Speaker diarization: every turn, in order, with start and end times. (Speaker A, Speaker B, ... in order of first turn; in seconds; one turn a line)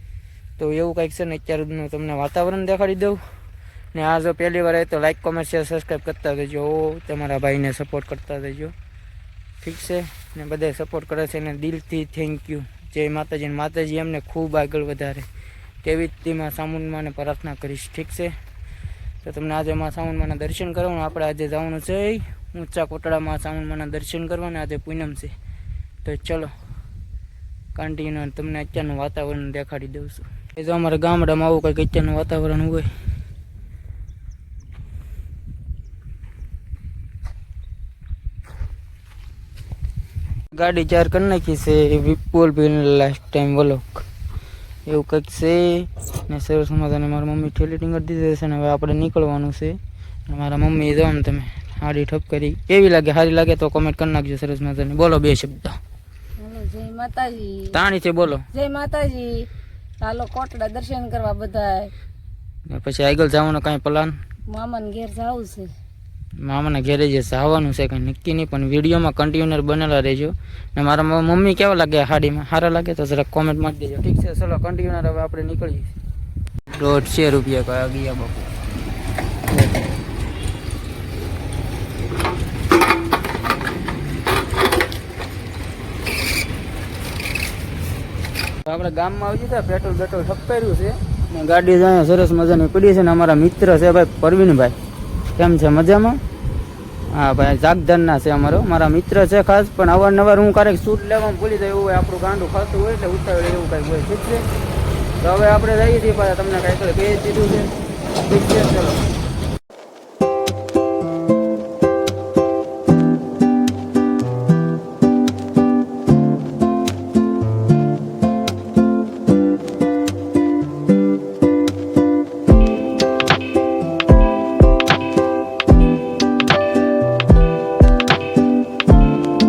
Speaker A: 0.6-3.2
Speaker A: 3.9-8.7
Speaker A: 9.6-15.3
Speaker A: 15.8-18.4
Speaker A: 19.2-25.3
Speaker A: 26.0-26.5
Speaker A: 27.7-32.9
Speaker A: 40.5-44.1
Speaker A: 44.9-55.8
Speaker B: 56.4-57.8
Speaker A: 57.7-58.5
Speaker B: 58.5-59.5
Speaker B: 60.0-61.9
Speaker A: 62.7-64.2
Speaker B: 64.5-65.7
Speaker A: 66.4-75.9
Speaker A: 76.7-78.5
Speaker A: 88.6-94.8
Speaker A: 95.4-96.2
Speaker A: 97.1-104.5
Speaker A: 105.2-109.0